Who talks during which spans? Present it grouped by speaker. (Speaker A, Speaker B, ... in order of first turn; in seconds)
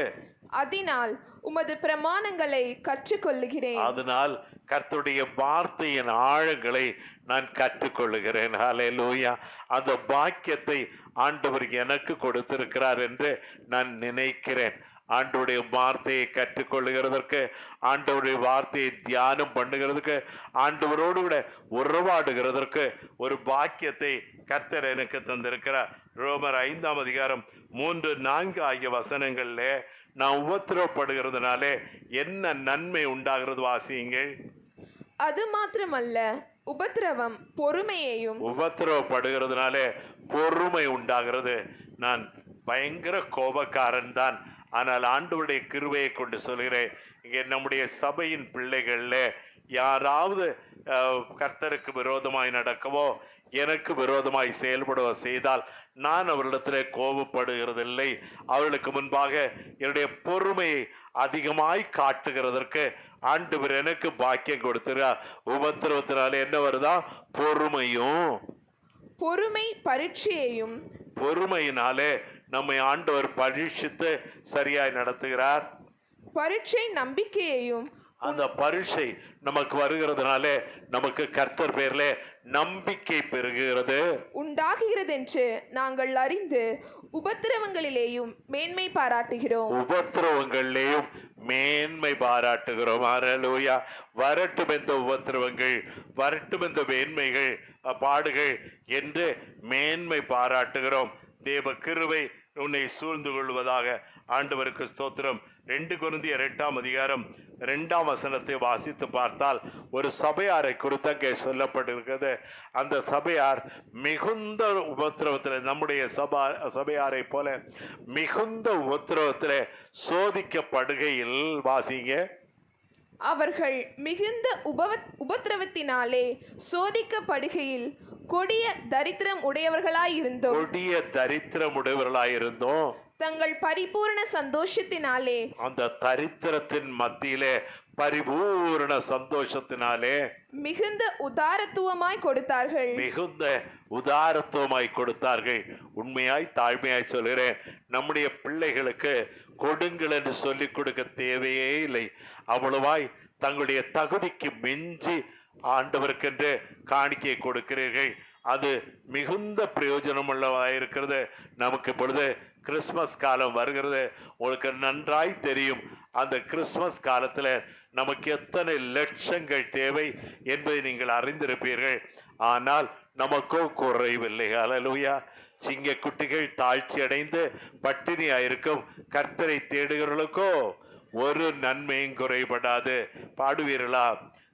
Speaker A: 0.6-3.9, 35.3-38.4, 69.2-70.8, 76.4-78.4, 84.4-89.7, 123.3-130.7, 133.2-135.5, 140.6-143.1
Speaker B: 3.8-34.3, 38.4-68.4, 71.2-75.7, 78.2-84.0, 89.7-117.6, 118.1-122.2, 130.5-132.9, 135.6-140.2, 142.9-155.2, 155.7-180.5, 181.2-184.2